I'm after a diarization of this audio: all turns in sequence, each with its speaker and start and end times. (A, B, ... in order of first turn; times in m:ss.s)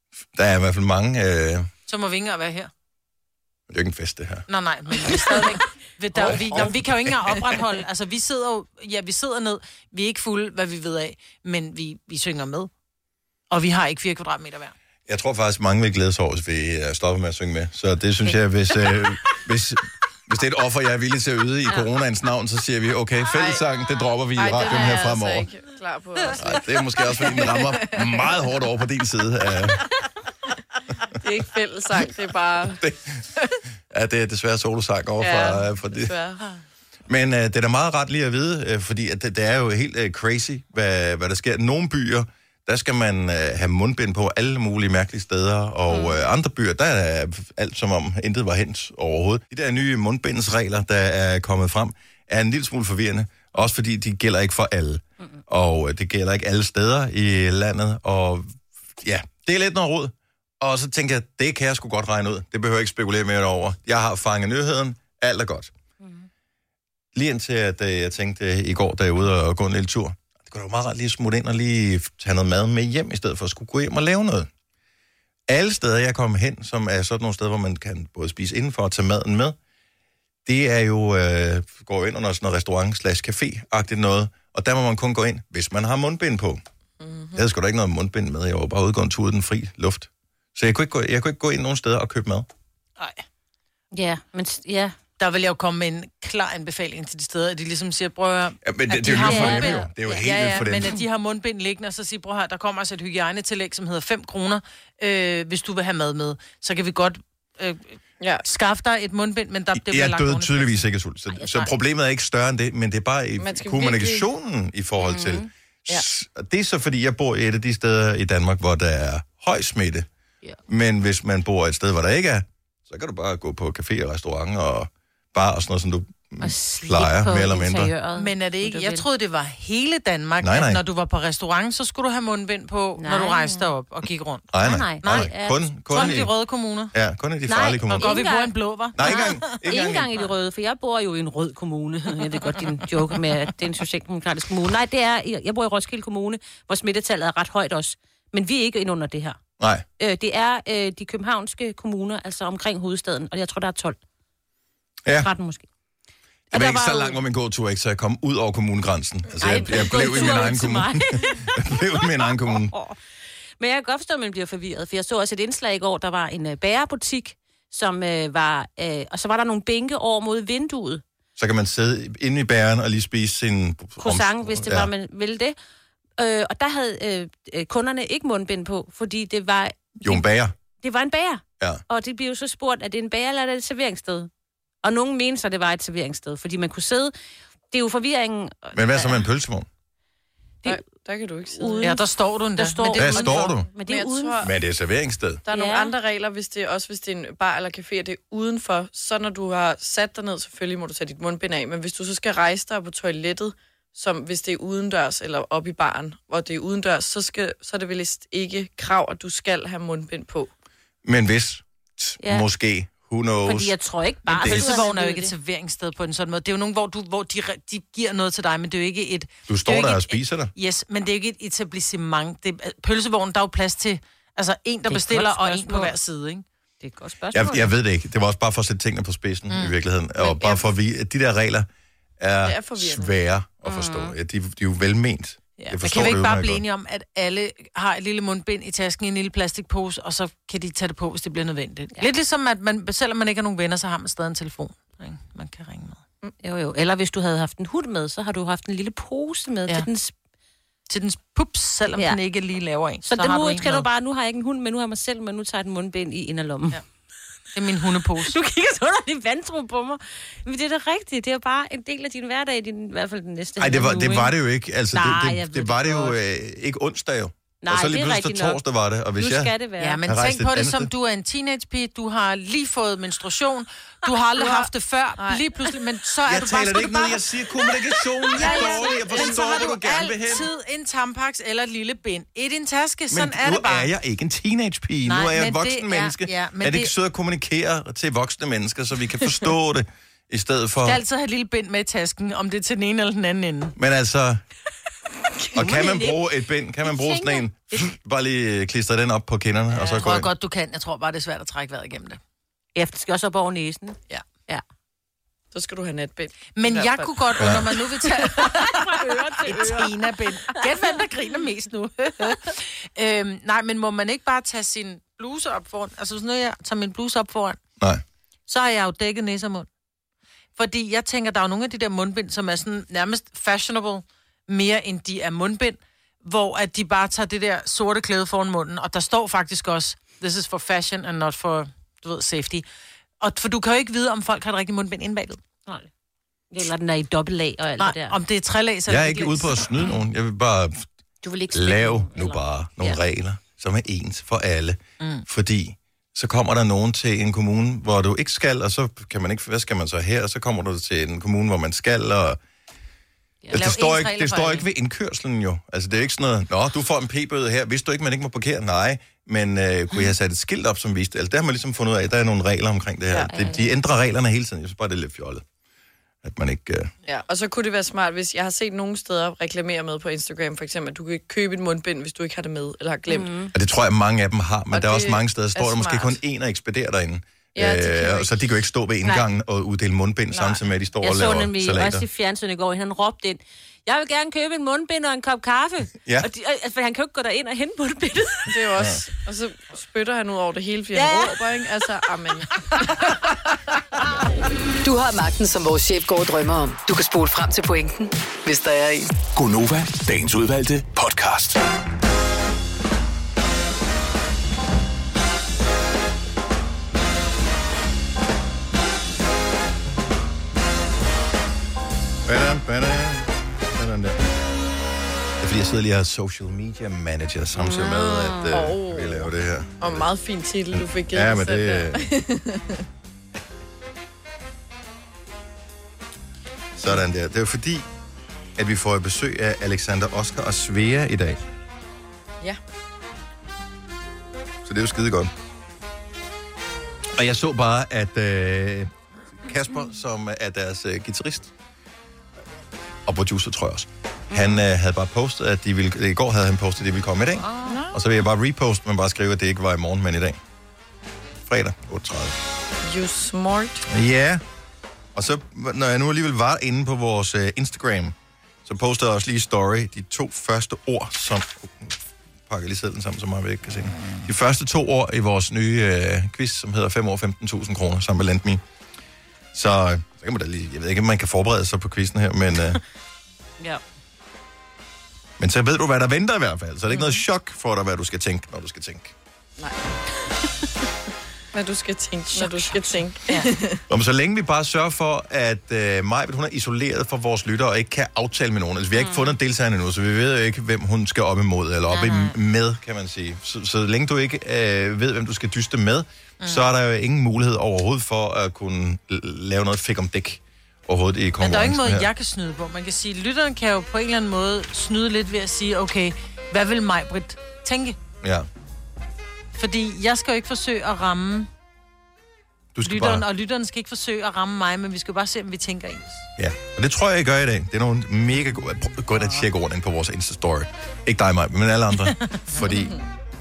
0:00.3-0:01.7 A
0:01.9-0:02.7 B
0:03.7-0:04.4 A
0:04.5-0:12.7 B
0:05.2-0:05.5 C
0:06.2-0:07.2 A
0:13.5-0:14.7 B
0:15.1-0:25.5 A
0:23.3-0:23.6 C
0:24.4-0:28.2 C
0:26.3-0:29.8 A
0:31.2-0:32.8 C
0:32.8-0:33.2 A
0:33.9-0:36.1 A
0:35.2-0:36.4 C
0:37.1-1:05.7 A
0:45.9-0:46.2 D
1:06.0-1:06.3 D
1:07.1-1:14.5 A
1:15.5-1:19.6 A
1:20.4-1:26.6 A
1:27.0-1:27.4 C
1:27.3-1:32.5 A
1:33.9-1:35.0 D
1:35.2-1:50.9 B
1:38.6-1:40.9 A
1:39.1-1:40.9 D
1:49.7-2:00.1 A
1:53.4-1:54.3 C
1:55.0-1:55.5 D
2:00.7-2:07.9 A
2:06.4-2:09.0 D
2:08.2-2:14.5 B
2:10.4-2:10.8 A
2:13.0-2:13.7 D
2:14.5-2:16.3 A
2:14.6-2:16.3 D
2:15.0-2:15.3 B
2:15.9-2:16.9 B
2:16.9-2:18.2 A
2:17.5-2:29.4 D
2:17.9-2:19.4 B
2:19.0-2:20.2 A
2:29.6-2:29.8 A
2:30.0-2:34.0 D
2:35.0-2:35.3 A
2:35.2-2:35.7 D
2:36.5-2:37.2 D
2:36.5-2:42.8 A
2:39.4-2:43.0 D
2:43.6-2:51.0 D
2:51.4-2:54.9 A
2:54.0-2:55.5 D
2:56.2-3:00.2 D
3:00.0-3:00.5 A
3:00.8-3:04.3 D
3:04.8-3:07.1 D
3:07.7-3:09.2 D
3:08.7-3:09.7 A
3:10.6-3:11.9 C
3:11.5-3:12.0 D
3:11.8-3:13.5 B
3:12.6-3:14.4 D
3:12.9-3:13.7 A
3:13.8-3:14.5 C
3:14.4-3:15.4 A
3:15.4-3:30.5 C
3:15.5-3:15.9 D
3:31.0-3:33.7 A
3:33.4-3:35.3 D
3:34.3-3:34.8 A
3:34.3-3:46.4 B
3:39.5-3:40.5 A
3:44.9-3:45.9 D
3:46.8-3:47.7 D
3:47.3-3:51.7 A
3:52.2-3:56.6 A
3:52.4-3:53.1 C
3:53.6-3:54.1 D
3:55.6-4:06.0 B
4:06.4-4:10.1 D
4:10.9-4:13.9 B
4:13.0-4:16.8 D
4:17.5-4:18.4 B
4:18.2-4:24.3 D
4:23.6-4:29.5 A
4:24.9-4:26.2 D
4:27.6-4:28.6 D
4:29.2-4:30.0 D
4:29.8-4:37.2 B
4:30.1-4:30.9 A
4:34.4-4:35.4 C
4:36.2-4:40.5 A
4:38.4-4:43.9 B
4:43.1-4:51.0 A
4:45.0-4:46.9 B
4:50.8-4:53.8 B
4:53.8-4:54.4 A
4:55.5-4:56.2 D
4:55.5-5:00.3 A
4:56.8-4:57.8 D
4:59.7-5:02.2 B
5:02.8-5:04.6 D
5:05.5-5:07.6 C
5:06.5-5:08.8 B
5:07.4-5:07.7 A
5:08.2-5:08.4 C
5:08.5-5:09.9 D
5:09.4-5:17.6 B
5:18.5-5:19.7 B
5:20.6-5:32.6 B
5:33.2-5:35.4 B
5:36.5-5:38.2 D
5:37.8-5:39.6 B
5:38.9-5:40.9 A
5:41.2-5:43.0 D
5:41.5-5:52.4 A
5:45.0-5:45.2 B
5:53.5-5:54.6 B
5:53.5-6:05.4 A
6:03.1-6:03.7 D
6:06.2-6:06.9 A
6:07.0-6:13.3 C
6:13.1-6:13.5 D
6:13.5-6:22.0 A
6:14.7-6:16.2 C
6:17.6-6:18.3 C
6:20.3-6:20.6 C
6:21.0-6:28.6 D
6:28.5-6:33.4 C
6:28.8-6:29.0 A
6:30.9-6:31.4 D
6:34.8-6:39.1 E
6:39.3-6:41.6 F
6:52.2-6:54.2 A
6:55.4-7:00.1 A
6:57.6-6:58.6 D
6:58.5-7:02.8 C
7:00.7-7:02.1 A
7:06.8-7:07.9 A
7:08.6-7:11.4 A
7:14.6-7:15.3 A
7:17.1-7:21.5 A
7:23.1-7:30.4 A
7:24.3-7:24.6 D
7:27.4-7:27.8 D
7:27.6-7:28.0 C
7:31.5-7:32.4 A
7:32.8-7:33.8 C
7:33.9-7:34.4 A
7:35.1-7:48.6 A
7:49.5-7:52.8 A
7:55.4-7:59.1 A
8:01.5-8:03.8 C
8:03.9-8:22.1 A
8:08.9-8:09.4 D
8:11.9-8:12.3 D
8:16.4-8:16.7 B
8:21.4-8:28.0 B
8:28.2-8:28.5 A
8:29.6-8:31.5 B
8:32.7-8:33.2 A
8:32.8-8:36.2 B
8:36.4-8:43.0 A
8:42.7-8:43.0 C